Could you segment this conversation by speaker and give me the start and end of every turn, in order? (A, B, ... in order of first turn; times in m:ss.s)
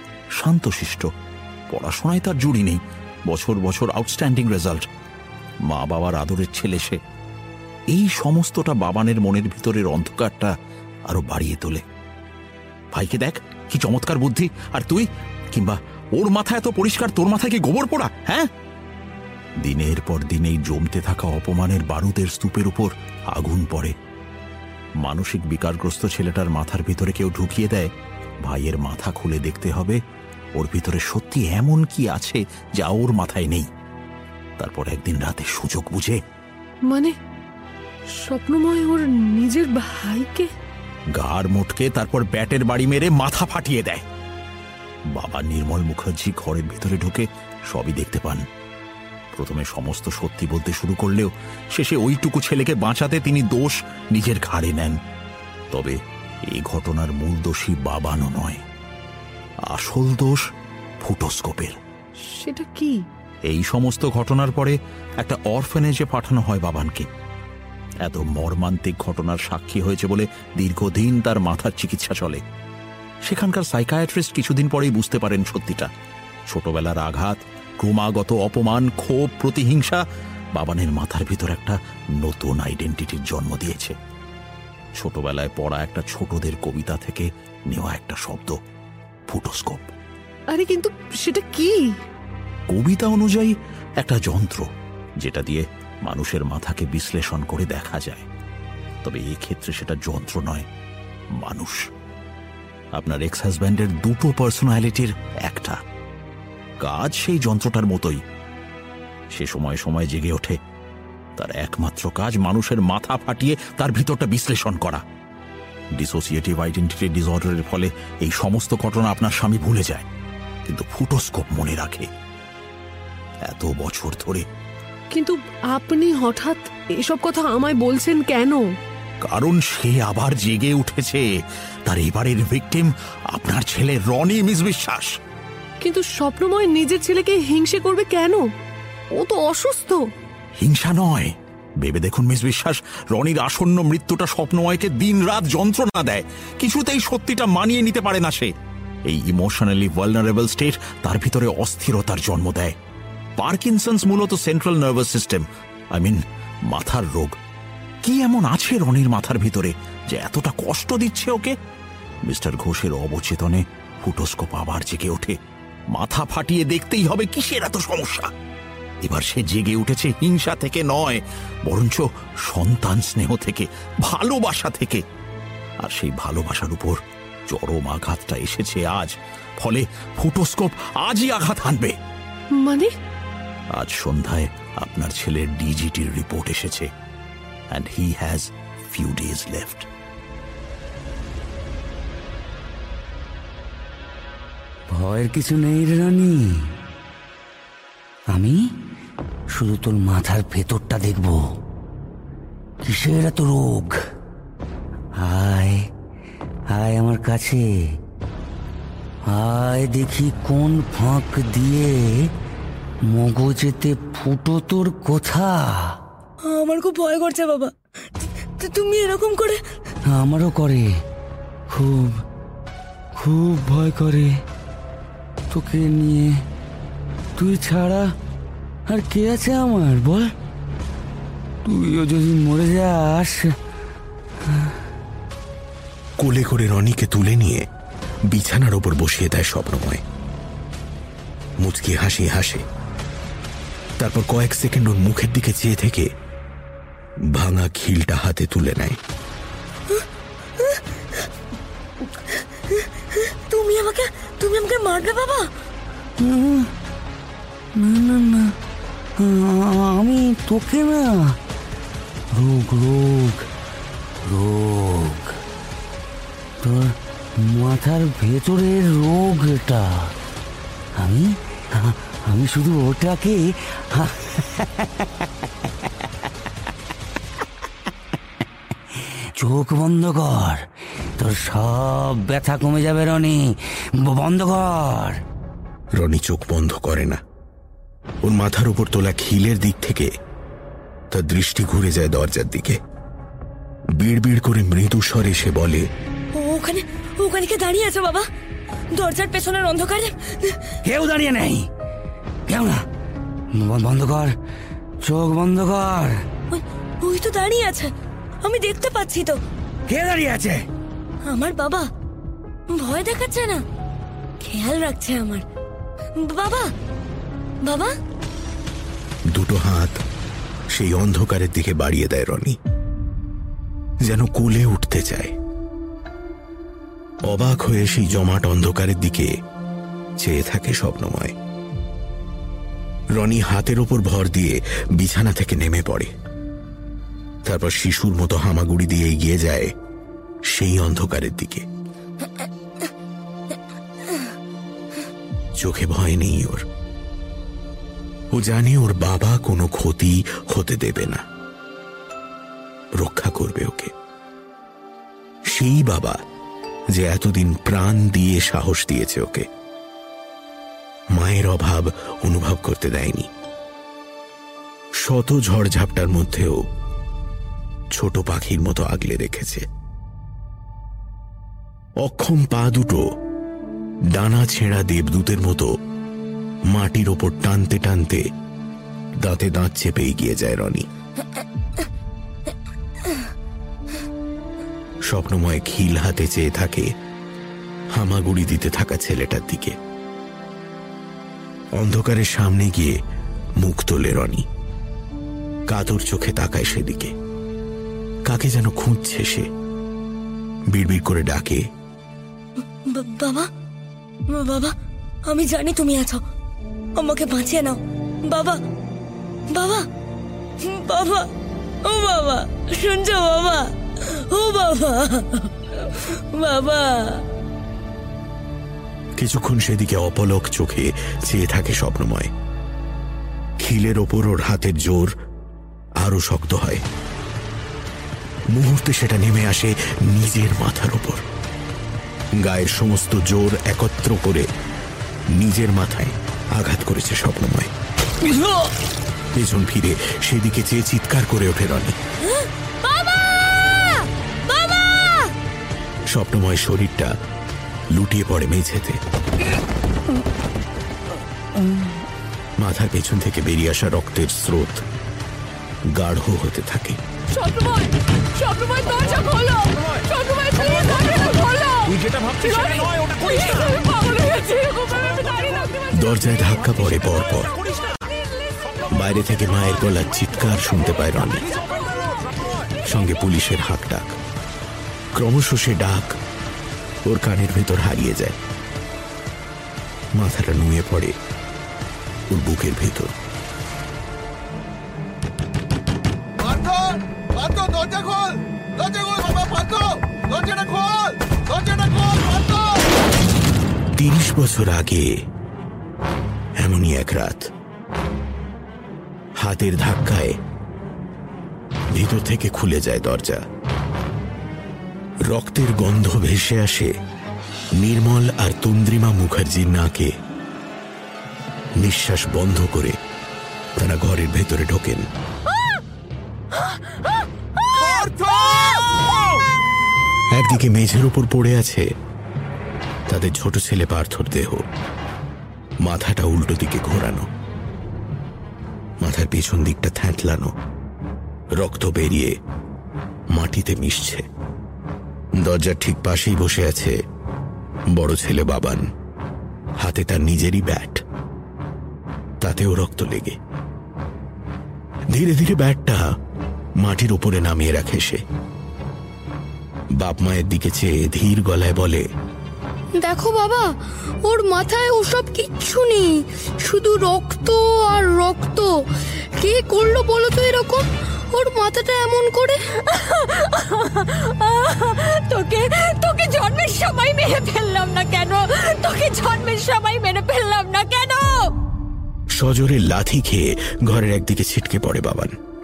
0:00.4-0:01.1 A
0:01.7-0:04.9 A
0:05.7-0:07.0 A
0:07.9-0:10.5 A
0:11.1-0:11.8 A
0:12.9-0:18.5 A
0:19.6-0:23.9 A
0:25.0-0:27.9 A
0:28.4-0:30.0 A
0:30.6-0:33.7 A
0:34.6-0:36.2 A
0:36.9-0:37.2 B
0:38.2-0:40.5 B
0:41.2-0:44.0 A
0:45.1-0:48.4 A
0:49.4-0:55.0 A
0:55.7-0:56.0 A
0:56.5-0:58.6 A
0:59.7-1:00.4 A
1:01.0-1:01.8 A
1:02.3-1:03.0 B
1:03.5-1:07.1 A
1:08.0-1:12.4 A
1:13.3-1:15.9 A
1:16.5-1:20.0 A
1:20.6-1:24.0 A
1:25.0-1:28.6 A
1:29.3-1:29.9 A
1:30.5-1:32.0 B
1:32.7-1:34.7 A
1:35.2-1:38.3 A
1:39.0-1:40.7 A
1:41.4-1:41.8 A
1:43.0-1:45.8 A
1:46.8-1:48.2 A
1:49.3-1:50.6 A
1:51.4-1:55.0 A
1:56.0-2:00.1 A
2:00.7-2:02.1 A
2:03.5-2:04.4 A
2:05.1-2:08.6 B
2:09.3-2:11.2 A
2:11.9-2:15.1 A
2:15.8-2:18.5 B
2:19.1-2:20.0 B
2:20.6-2:28.5 A
2:29.1-2:32.8 A
2:33.4-2:37.4 A
2:38.0-2:41.6 A
2:42.2-2:45.4 A
2:45.9-2:48.3 A
2:49.0-2:55.0 A
2:55.8-3:02.0 A
3:02.6-3:02.9 B
3:03.8-3:06.9 A
3:07.7-3:09.9 A
3:14.9-3:16.7 C
3:18.3-3:18.6 C
3:19.5-3:21.5 C
3:22.9-3:24.0 C
3:25.2-3:25.9 C
3:26.7-3:27.7 C
3:29.3-3:32.3 C
3:33.1-3:36.0 C
3:36.4-3:39.6 D
3:40.1-3:41.0 C
3:41.7-3:42.2 C
3:43.2-3:44.4 C
3:45.5-3:46.4 C
3:47.4-3:48.1 C
3:48.9-3:50.3 C
3:51.6-3:53.6 C
3:56.2-3:57.7 E
3:58.3-4:00.0 E
4:01.6-4:02.6 E
4:04.0-4:06.1 E
4:07.3-4:09.0 E
4:10.6-4:11.2 D
4:12.3-4:15.5 D
4:16.2-4:16.7 C
4:17.8-4:18.5 C
4:19.2-4:21.4 C
4:22.3-4:23.5 C
4:24.2-4:25.4 C
4:26.6-4:30.1 C
4:31.0-4:34.7 C
4:39.4-4:40.7 C
4:41.2-4:45.2 C
4:46.0-4:47.2 E
4:48.2-4:50.1 E
4:51.1-4:52.8 E
4:54.0-4:55.9 E
4:56.4-4:58.3 D
4:58.9-5:00.7 D
5:00.8-5:01.7 C
5:02.5-5:02.8 C
5:03.6-5:04.3 C
5:05.0-5:06.2 C
5:06.5-5:07.9 D
5:08.4-5:09.4 D
5:09.9-5:10.6 C
5:11.2-5:11.9 D
5:12.7-5:13.6 D
5:14.4-5:15.4 D
5:16.2-5:16.7 D
5:17.6-5:17.9 D
5:19.3-5:20.0 E
5:20.7-5:22.6 E
5:24.0-5:25.3 E
5:27.3-5:29.3 E
5:30.2-5:31.4 E
5:33.1-5:36.1 E
5:37.4-5:39.7 E
5:40.5-5:41.6 E
5:45.6-5:46.6 E
5:48.3-5:51.2 E
5:53.0-5:53.9 E
5:55.5-5:56.2 E
5:56.9-5:59.5 E
6:01.2-6:03.3 E
6:05.0-6:06.6 E
6:07.9-6:09.6 E
6:12.0-6:13.0 E
6:14.1-6:15.7 E
6:16.7-6:18.2 E
6:19.2-6:20.9 E
6:25.1-6:26.9 E
6:27.9-6:29.8 E
6:31.8-6:33.0 E
6:33.6-6:34.5 E
6:35.7-6:37.1 E
6:38.2-6:39.5 E
6:40.7-6:41.6 E
6:42.8-6:43.5 D
6:44.3-6:44.8 D
6:45.3-6:46.2 D
6:47.0-6:48.6 D
6:49.5-6:49.9 D
6:50.6-6:51.3 D
6:51.8-6:57.2 D
6:59.2-7:02.3 E
7:03.6-7:05.1 E
7:06.0-7:06.8 E
7:08.5-7:11.2 E
7:12.4-7:14.5 E
7:15.4-7:17.7 E
7:18.2-7:18.7 C
7:19.4-7:22.0 E
7:22.2-7:25.3 D
7:26.1-7:27.1 E
7:27.9-7:29.0 E
7:32.6-7:34.8 E
7:35.9-7:37.0 E
7:37.3-7:46.0 B
7:41.9-7:43.1 A
7:45.9-7:47.5 E
7:48.9-7:51.5 E
7:52.8-7:54.2 E
7:55.2-7:56.2 E
7:57.1-7:58.4 E
8:00.2-8:01.2 E
8:02.3-8:03.1 E
8:06.5-8:06.9 E
8:07.4-8:08.2 E
8:08.8-8:10.9 E
8:11.5-8:12.6 E
8:14.0-8:15.1 E
8:16.6-8:17.5 E
8:19.4-8:20.4 E
8:21.9-8:23.4 E
8:25.3-8:26.9 E
8:27.8-8:30.1 E
8:31.8-8:33.0 E
8:33.8-8:35.0 E
8:40.3-8:41.9 E
8:43.1-8:44.6 E
8:45.8-8:47.3 E
8:49.0-8:50.5 E
8:51.6-8:52.4 E
8:53.3-8:54.3 E
8:55.4-8:57.0 E
8:57.9-8:58.9 E
8:59.8-9:01.0 E
9:02.4-9:03.4 E
9:05.1-9:06.0 E
9:06.8-9:08.2 E
9:10.0-9:12.1 E
9:13.0-9:13.7 F
9:14.2-9:18.8 F
9:19.4-9:23.1 F
9:24.5-9:24.8 F
9:25.4-9:31.3 G
9:32.4-9:35.4 E